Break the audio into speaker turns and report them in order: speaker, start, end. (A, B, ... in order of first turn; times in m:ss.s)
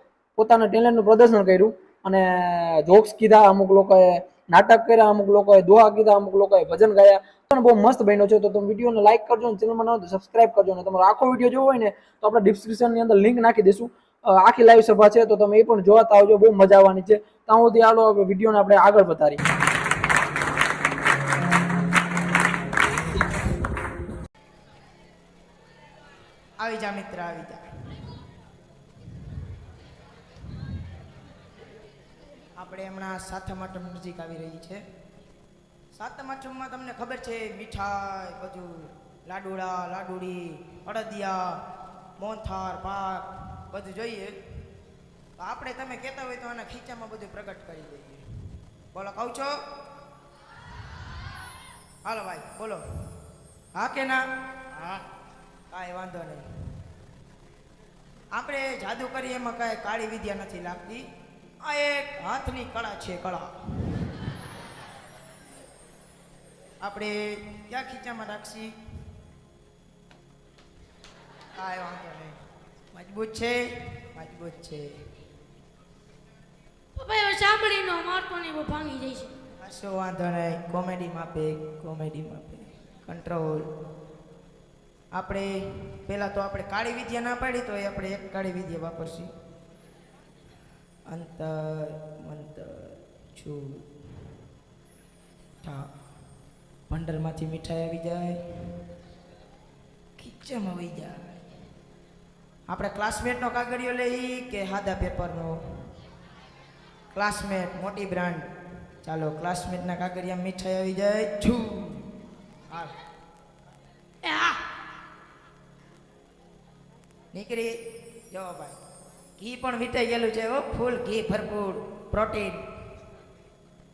0:00.4-0:19.4 A
0:26.6-0:27.6 B
0:32.6-0:34.8 B
0:35.9-0:41.6 B
0:42.2-0:44.4 B
0:45.4-0:48.2 B
0:48.9-0:49.6 B
0:52.0-0:52.8 B
0:53.8-0:54.2 B
0:55.7-0:56.4 B
0:58.3-1:01.0 B
1:01.6-1:03.5 B
1:06.8-1:08.7 B
1:11.5-1:15.1 B
1:17.0-1:19.3 C
1:19.6-1:23.7 B
1:25.1-1:29.3 B
1:31.1-1:33.9 B
1:35.6-1:35.9 B
1:36.9-1:38.8 B
1:40.2-1:41.4 B
1:42.7-1:45.9 B
1:47.1-1:48.5 B
1:49.0-1:52.1 B
1:52.7-1:53.0 B
1:54.2-1:54.6 C
1:57.3-1:57.8 B
1:58.3-1:58.8 B
1:59.4-2:02.6 B